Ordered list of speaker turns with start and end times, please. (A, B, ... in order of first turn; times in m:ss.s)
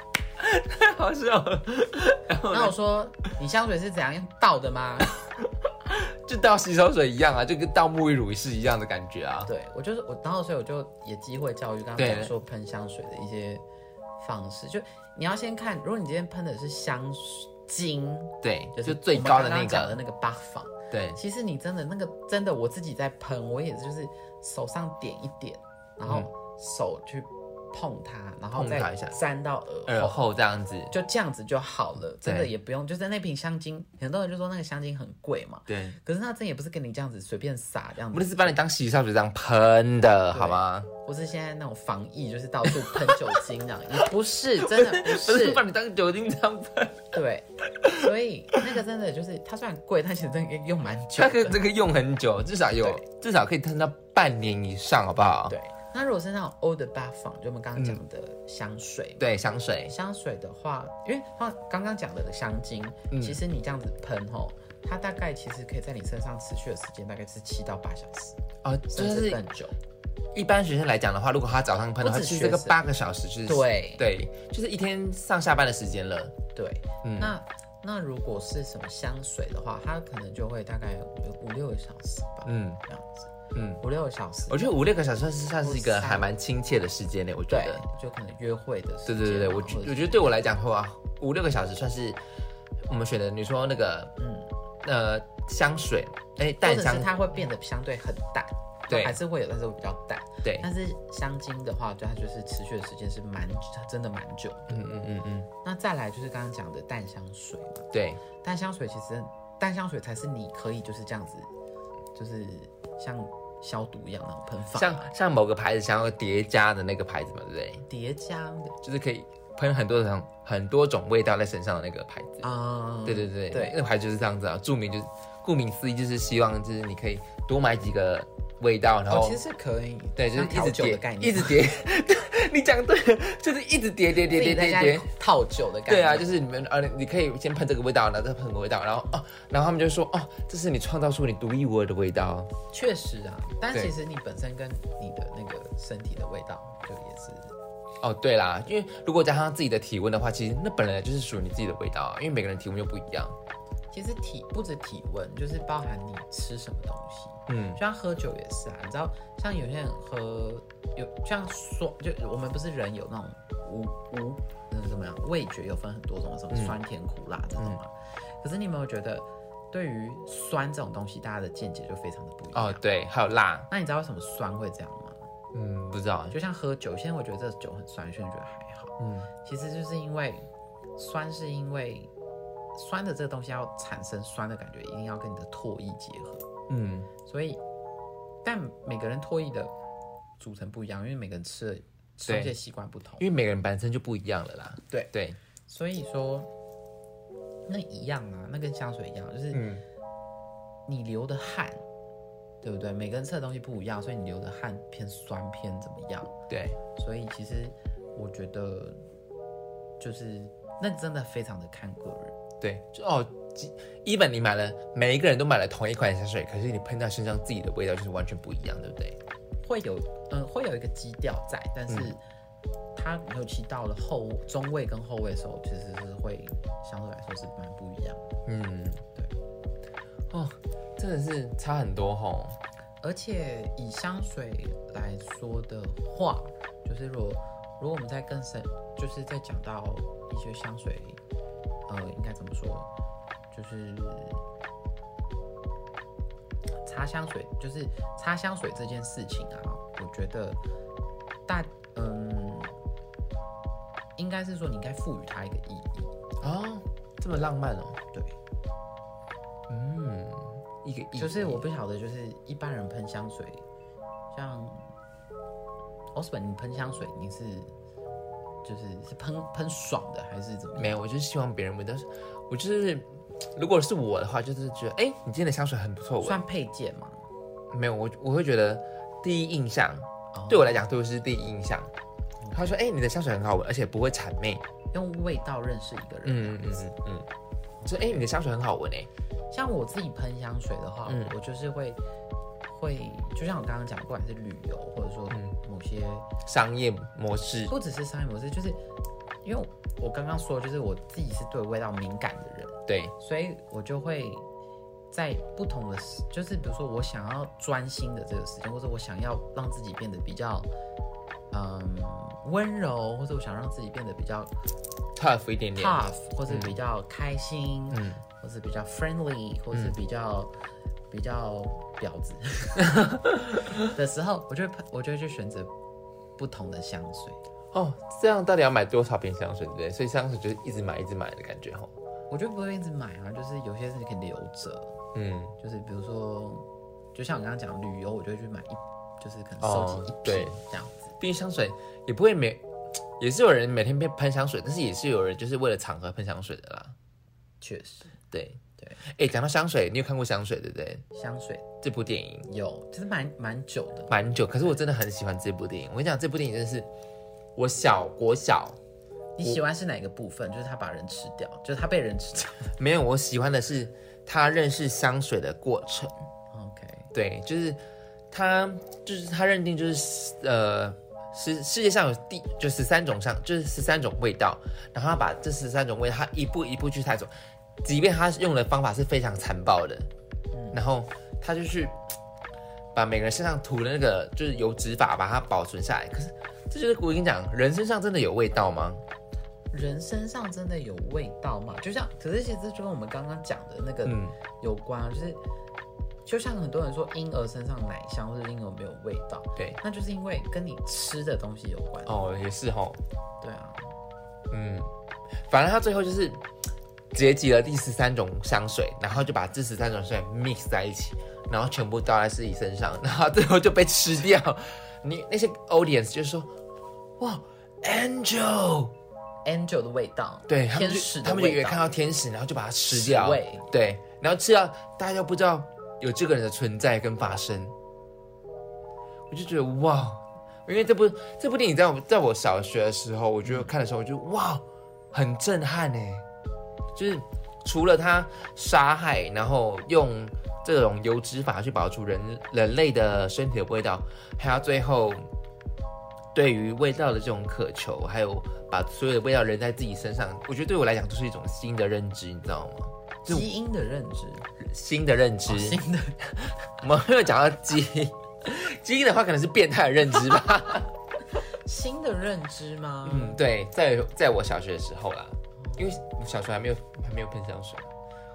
0:00.4-0:02.7 A
0:02.4-0:05.2 B
0:05.8-0:09.5 A
0:09.4-0:13.6 B
0:12.0-0:12.3 A
0:14.2-0:30.2 B
0:18.4-0:20.0 A
0:20.9-0:21.2 A
0:28.5-0:29.2 A
0:29.9-0:30.9 A
0:30.9-0:38.6 B
0:32.2-0:32.5 A
0:35.7-0:36.0 A
0:38.1-0:40.9 A
0:40.3-0:45.6 B
0:42.9-0:43.2 A
0:44.6-0:47.1 A
0:47.1-0:51.6 B
0:51.1-0:55.6 A
0:55.5-0:59.2 B
0:59.2-0:59.9 A
0:59.9-1:09.8 B
1:03.1-1:03.4 A
1:08.6-1:09.4 A
1:10.3-1:16.4 A
1:12.0-1:12.8 B
1:13.5-1:14.0 B
1:16.6-1:24.8 B
1:17.0-1:17.3 A
1:22.4-1:22.8 A
1:23.5-1:23.8 A
1:24.5-1:27.8 A
1:25.6-1:26.3 B
1:27.5-1:30.3 B
1:29.1-1:32.2 A
1:32.9-1:34.1 A
1:34.2-1:34.5 B
1:34.8-1:37.1 A
1:36.6-1:44.8 B
1:38.9-1:39.2 A
1:44.7-1:45.5 A
1:45.6-1:47.9 B
1:47.9-1:48.2 A
1:48.4-1:51.5 B
1:52.2-1:55.1 B
1:54.8-1:57.9 A
1:57.9-1:58.8 B
1:58.8-2:02.5 A
2:02.4-2:03.8 B
2:03.0-2:09.4 A
2:09.1-2:11.6 B
2:10.2-2:15.1 A
2:14.2-2:16.3 B
2:15.9-2:22.5 A
2:22.7-2:27.5 B
2:28.0-2:33.4 A
2:33.9-2:52.8 B
2:37.5-2:37.8 A
2:46.5-2:46.8 A
2:52.5-2:53.7 A
2:53.7-2:55.2 B
2:55.5-2:56.4 A
2:56.3-3:00.4 B
2:59.0-2:59.3 A
3:01.0-3:02.1 B
3:02.8-3:06.5 B
3:06.7-3:07.1 A
3:07.2-3:07.6 B
3:08.4-3:09.7 B
3:10.4-3:13.3 B
3:12.3-3:12.5 A
3:13.2-3:15.4 A
3:15.7-3:16.5 B
3:17.7-3:19.6 B
3:19.5-3:19.8 A
3:20.9-3:21.8 B
3:22.6-3:26.3 B
3:26.5-3:26.8 A
3:27.0-3:29.0 B
3:30.0-3:32.4 B
3:32.6-3:39.2 A
3:39.6-3:42.2 B
3:43.0-3:48.3 B
3:48.5-3:49.0 A
3:50.3-3:52.6 A
3:53.0-4:01.2 B
4:01.9-4:02.9 B
4:03.5-4:04.4 B
4:06.8-4:10.6 B
4:11.5-4:12.7 B
4:14.2-4:16.1 B
4:16.4-4:18.0 A
4:19.7-4:21.6 A
4:21.2-4:23.6 B
4:24.3-4:24.8 B
4:26.2-4:27.7 B
4:28.6-4:31.0 B
4:30.8-4:36.4 A
4:36.2-4:37.2 B
4:37.7-4:41.9 A
4:40.3-4:40.8 B
4:42.4-4:42.8 B
4:42.5-4:44.6 A
4:44.9-4:46.9 B
4:46.2-4:47.3 A
4:47.8-4:48.2 B
4:47.9-4:49.1 A
4:49.5-4:52.0 B
4:51.1-4:51.3 A
4:52.7-4:56.3 B
4:56.5-4:57.7 A
4:57.7-4:58.8 B
4:59.4-5:04.5 B
5:02.9-5:03.1 A
5:05.1-5:10.7 B
5:11.5-5:14.5 B
5:15.2-5:16.8 A
5:15.8-5:20.5 B
5:17.9-5:18.2 A
5:21.1-5:23.0 B
5:23.0-5:23.8 A
5:23.8-5:25.7 B
5:26.4-5:27.4 B
5:27.7-5:31.9 A
5:32.3-5:35.0 B
5:35.2-5:35.5 A
5:35.6-5:41.1 B
5:39.6-5:40.6 A
5:41.2-5:42.6 A
5:43.2-5:47.0 A
5:47.6-5:48.1 B
5:48.3-5:51.0 A
5:51.1-5:51.7 B
5:51.8-5:52.5 A
5:52.5-5:54.2 B
5:54.1-5:56.9 A
5:57.6-5:58.8 A
5:59.4-6:02.8 B
6:02.8-6:06.1 A
6:06.5-6:07.1 B
6:07.1-6:07.8 A
6:08.3-6:20.1 A
6:20.5-6:20.8 B
6:20.7-6:22.0 A
6:22.9-6:29.0 A
6:29.7-6:35.4 B
6:34.0-6:34.4 A
6:36.2-6:42.4 B
6:42.0-6:43.0 A
6:43.4-6:43.9 B
6:44.5-6:44.9 A
6:45.4-6:46.4 A
6:47.1-6:56.5 A
6:57.2-6:58.9 A
6:59.4-7:01.9 B
7:00.5-7:07.8 A
7:02.9-7:03.7 B
7:09.3-7:16.3 A
7:13.5-7:13.7 B
7:17.0-7:25.3 A
7:26.3-7:33.5 A
7:33.3-7:34.5 B
7:34.6-7:35.8 A
7:35.5-7:36.2 B
7:36.4-7:40.9 A
7:41.5-7:43.4 B
7:43.0-7:47.9 A
7:45.6-7:46.0 B